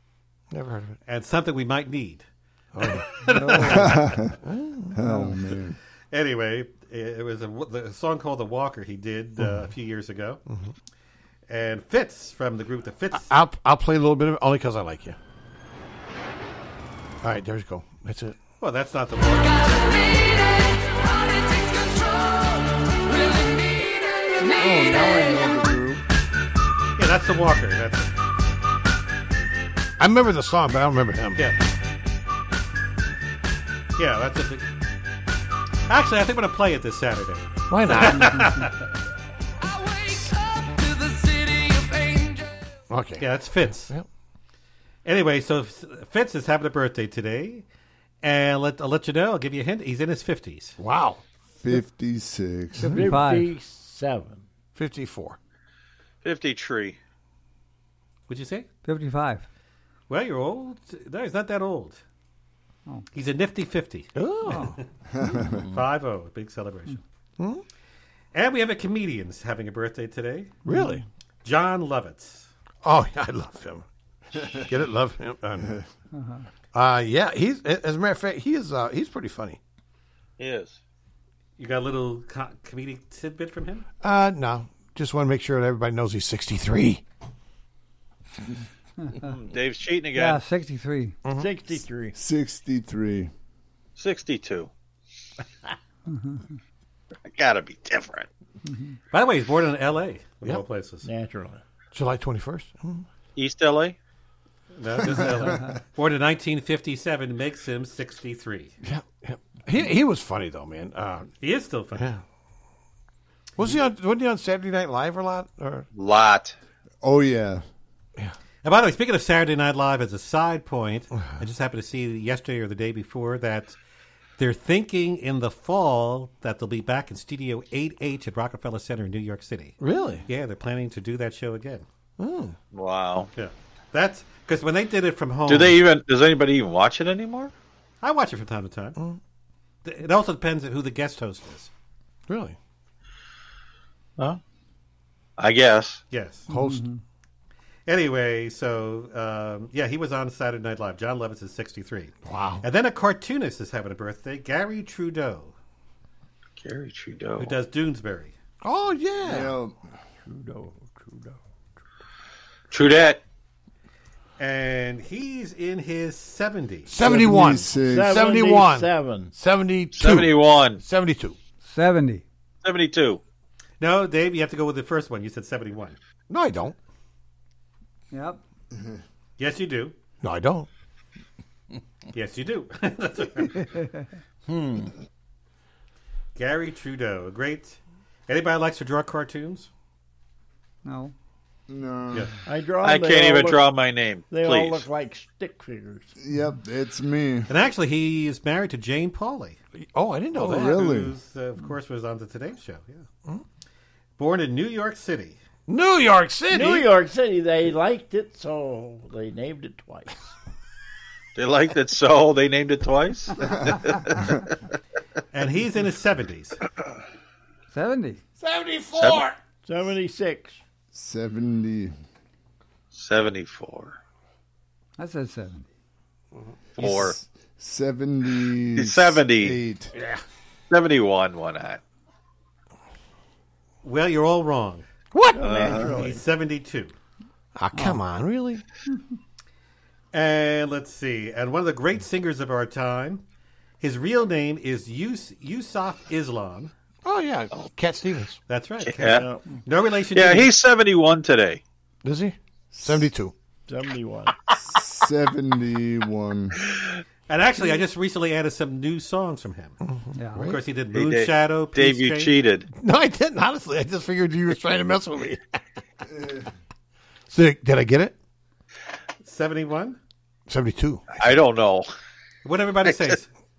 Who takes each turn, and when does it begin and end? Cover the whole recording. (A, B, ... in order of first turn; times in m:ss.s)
0:00.5-0:01.0 A
0:01.1-0:02.2 B
0:02.7-0:03.1 A
0:02.8-0:04.2 B
0:03.2-0:03.9 C
0:03.7-0:04.3 D
0:04.4-0:05.0 A
0:04.9-0:05.8 D
0:05.0-0:05.4 C
0:06.1-0:10.4 B
0:09.4-0:09.6 A
0:11.5-0:13.3 B
0:13.1-0:15.2 A
0:17.2-0:18.4 A
0:18.6-0:19.9 B
0:24.5-0:26.0 D
0:27.0-0:28.1 B
0:30.0-0:31.4 A
0:34.0-0:34.7 B
0:35.9-0:38.8 B
0:37.7-0:38.4 A
0:42.9-0:43.3 A
0:43.2-0:43.9 B
0:45.0-0:47.6 B
0:48.2-0:50.8 B
0:50.8-0:51.2 A
0:51.6-0:53.0 D
0:52.8-0:53.5 C
0:52.9-0:54.4 E
0:54.7-0:55.4 A
0:56.2-0:57.0 F
0:58.3-0:58.7 B
0:58.8-0:59.4 C
1:00.1-1:02.0 B
1:03.1-1:04.1 B
1:04.2-1:04.8 A
1:04.5-1:04.8 C
1:05.1-1:05.6 D
1:05.7-1:07.0 B
1:07.4-1:07.6 A
1:08.3-1:10.5 B
1:10.6-1:11.0 A
1:10.7-1:11.0 C
1:11.4-1:12.5 B
1:12.8-1:13.9 A
1:14.5-1:15.8 A
1:16.1-1:16.4 C
1:16.7-1:19.6 A
1:20.4-1:20.8 F
1:21.6-1:23.9 B
1:24.0-1:27.0 A
1:29.2-1:30.4 F
1:30.1-1:31.2 C
1:31.4-1:32.2 E
1:32.2-1:33.3 D
1:34.0-1:34.7 F
1:36.1-1:36.4 C
1:37.2-1:38.3 F
1:38.7-1:38.9 C
1:39.1-1:41.1 B
1:41.0-1:41.6 E
1:41.9-1:43.0 A
1:43.4-1:44.0 F
1:44.8-1:48.7 B
1:45.1-1:45.6 D
1:48.8-1:51.3 A
1:51.4-1:52.1 B
1:51.9-1:52.2 A
1:53.6-1:55.9 A
1:55.9-1:56.6 F
1:57.0-1:57.6 D
1:58.6-2:03.8 B
2:04.4-2:11.8 B
2:09.8-2:10.2 A
2:12.2-2:12.6 A
2:12.7-2:13.3 F
2:13.4-2:15.8 B
2:15.5-2:17.5 F
2:18.0-2:19.0 B
2:19.8-2:21.7 B
2:22.3-2:22.6 A
2:25.4-2:26.0 F
2:26.1-2:26.4 B
2:26.5-2:26.8 A
2:26.5-2:27.0 C
2:27.9-2:35.6 B
2:32.2-2:32.6 A
2:36.6-2:37.6 F
2:37.4-2:38.4 B
2:38.6-2:39.5 A
2:39.2-2:39.7 D
2:40.3-2:41.4 E
2:42.7-2:43.2 F
2:44.4-2:46.9 B
2:46.9-2:51.4 A
2:47.0-2:48.2 D
2:47.1-2:49.4 E
2:49.9-2:50.8 F
2:51.6-2:52.2 C
2:52.6-2:53.2 F
2:53.8-2:56.0 B
2:56.3-2:56.8 A
2:58.1-2:58.4 C
2:59.4-2:59.9 B
3:00.2-3:00.7 A
3:02.1-3:03.6 B
3:04.4-3:04.9 E
3:06.4-3:09.7 B
3:10.8-3:11.1 C
3:11.7-3:12.3 D
3:12.4-3:13.7 E
3:12.8-3:14.9 F
3:14.3-3:16.1 E
3:16.2-3:17.5 D
3:17.5-3:19.6 B
3:19.8-3:20.8 A
3:20.4-3:21.1 D
3:20.4-3:23.1 B
3:24.2-3:25.4 B
3:25.7-3:26.9 A
3:26.5-3:30.3 E
3:31.4-3:34.1 F
3:33.4-3:34.4 D
3:35.3-3:36.6 B
3:37.7-3:38.2 C
3:38.4-3:39.2 A
3:38.9-3:39.3 F
3:39.6-3:40.6 E
3:40.9-3:41.9 D
3:42.9-3:44.0 F
3:45.0-3:45.6 C
3:46.8-3:47.2 F
3:46.8-3:49.9 D
3:48.8-3:49.6 F
3:50.7-3:51.8 F
3:53.8-3:54.9 B
3:55.1-3:56.1 A
3:55.3-3:56.2 E
3:55.4-3:55.9 F
3:55.9-3:56.9 B
3:57.6-3:58.6 A
3:57.7-3:58.0 C
4:00.1-4:03.2 B
4:03.8-4:06.7 B
4:07.0-4:08.4 A
4:08.5-4:10.5 B
4:08.8-4:09.2 F
4:09.0-4:09.6 E
4:10.1-4:11.6 F
4:12.0-4:13.3 A
4:12.7-4:13.1 D
4:13.7-4:14.4 E
4:14.6-4:16.6 D
4:17.3-4:19.8 B
4:19.8-4:20.6 A
4:20.2-4:20.4 C
4:20.4-4:22.4 B
4:20.9-4:22.7 F
4:22.7-4:25.4 A
4:26.1-4:26.5 D
4:27.3-4:28.2 A
4:29.2-4:30.0 B
4:30.5-4:31.2 A
4:31.2-4:31.9 F
4:32.4-4:33.3 B